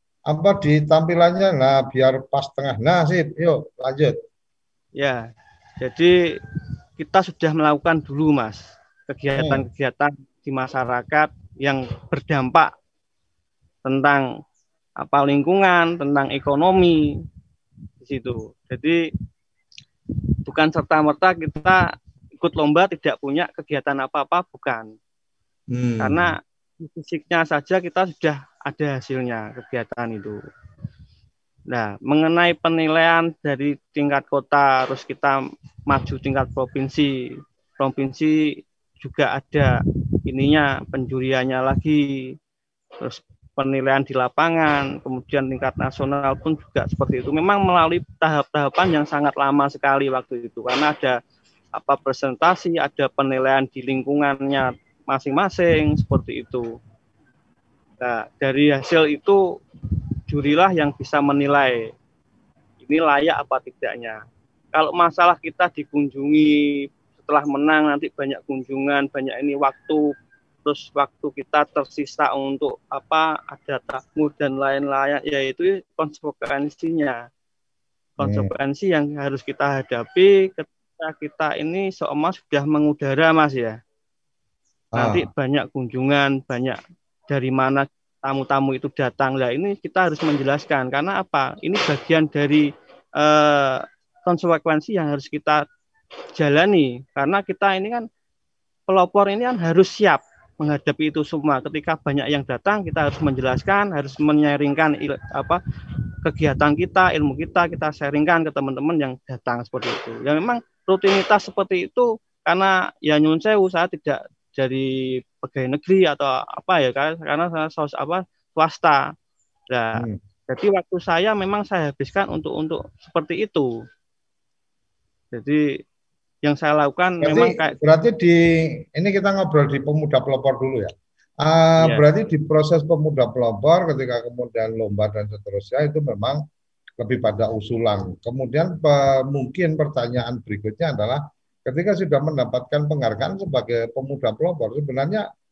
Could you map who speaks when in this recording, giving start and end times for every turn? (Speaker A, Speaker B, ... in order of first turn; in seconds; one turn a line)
Speaker A: 0.3-4.2
Speaker B: 5.0-5.2
Speaker B: 5.8-6.1
Speaker B: 7.0-12.7
Speaker A: 9.4-9.6
Speaker B: 13.8-14.2
Speaker B: 15.0-17.0
Speaker B: 18.0-19.0
Speaker B: 20.4-21.8
Speaker B: 22.4-24.9
Speaker A: 25.7-26.3
Speaker B: 26.0-30.4
Speaker B: 31.7-37.1
Speaker B: 37.8-38.4
Speaker B: 39.0-39.7
Speaker B: 40.3-42.3
Speaker B: 43.0-51.2
Speaker B: 51.8-56.7
Speaker B: 58.0-59.4
Speaker B: 60.3-61.9
Speaker B: 62.8-64.2
Speaker B: 64.7-66.6
Speaker B: 67.2-70.0
Speaker B: 70.6-77.2
Speaker B: 78.2-83.8
Speaker A: 78.2-78.5
Speaker A: 84.9-85.3
Speaker B: 85.0-86.8
Speaker B: 87.3-92.7
Speaker B: 93.2-95.6
Speaker B: 96.3-98.0
Speaker B: 98.9-105.6
Speaker B: 106.2-119.0
Speaker B: 119.7-123.7
Speaker B: 125.3-125.7
Speaker B: 126.4-127.8
Speaker A: 127.2-136.4
Speaker A: 137.0-145.2